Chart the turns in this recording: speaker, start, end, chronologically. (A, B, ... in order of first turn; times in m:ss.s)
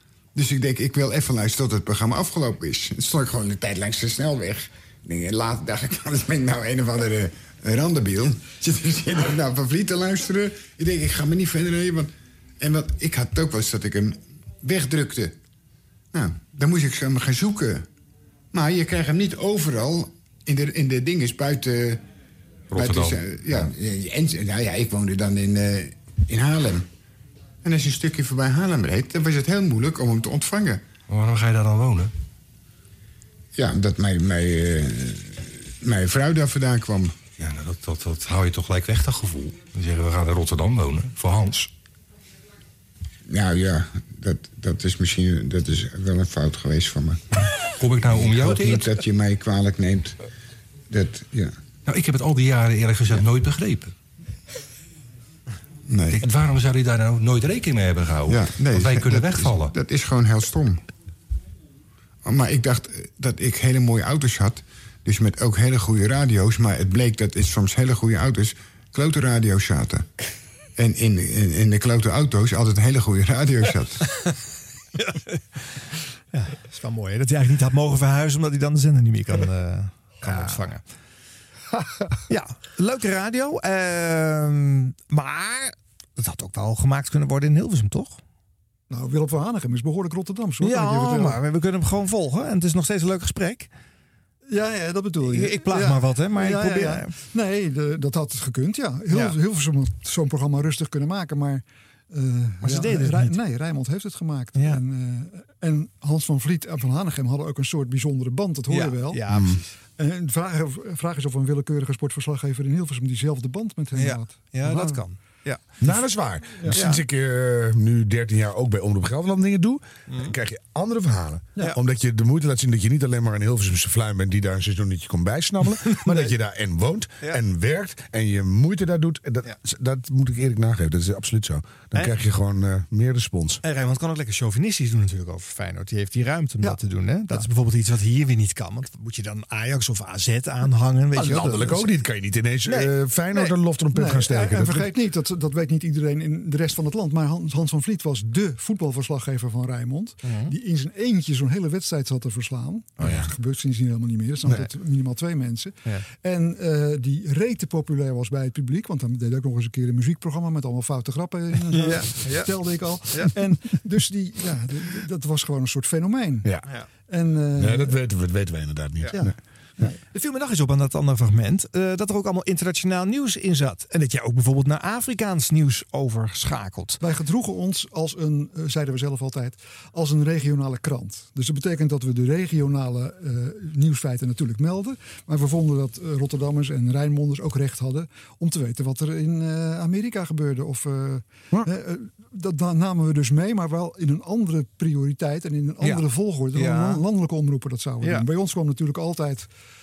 0:00.4-0:15.4 A
0:16.1-0:17.9 A
0:18.5-0:22.0 A
0:22.7-0:26.9 A
0:22.8-0:23.1 B
0:27.6-0:30.8 A
0:33.6-0:37.2 A
0:37.6-0:39.0 B
0:39.9-0:41.1 B
0:43.3-0:47.2 A
0:47.8-0:49.0 B
0:48.0-0:50.2 A
0:50.9-0:51.6 A
0:51.9-0:53.9 B
0:55.9-0:56.3 A
0:56.2-0:59.7 B
0:58.3-1:00.8 A
1:02.2-1:10.1 A
1:10.8-1:14.0 A
1:15.0-1:15.4 C
1:16.3-1:20.8 C
1:22.3-1:28.2 C
1:28.9-1:31.4 D
1:30.6-1:33.7 C
1:34.5-1:49.2 D
1:35.2-1:37.2 C
1:39.1-1:39.4 C
1:42.6-1:43.4 C
1:44.6-1:44.8 C
1:48.7-1:49.7 C
1:49.3-1:49.6 E
1:50.0-1:55.0 D
1:53.9-1:55.8 C
1:55.8-2:13.6 E
1:56.7-1:57.0 C
2:05.9-2:06.3 C
2:13.6-2:21.9 C
2:16.6-2:17.5 D
2:21.2-2:24.9 E
2:23.9-2:46.5 D
2:30.2-2:30.5 C
2:33.0-2:33.3 E
2:34.5-2:34.7 C
2:41.7-2:43.4 C
2:46.4-2:46.7 E
2:47.1-2:48.0 D
2:47.6-2:49.3 E
2:49.1-2:50.0 D
2:49.9-2:57.0 C
2:57.0-3:19.5 D
3:15.8-3:17.0 C
3:18.0-3:18.3 C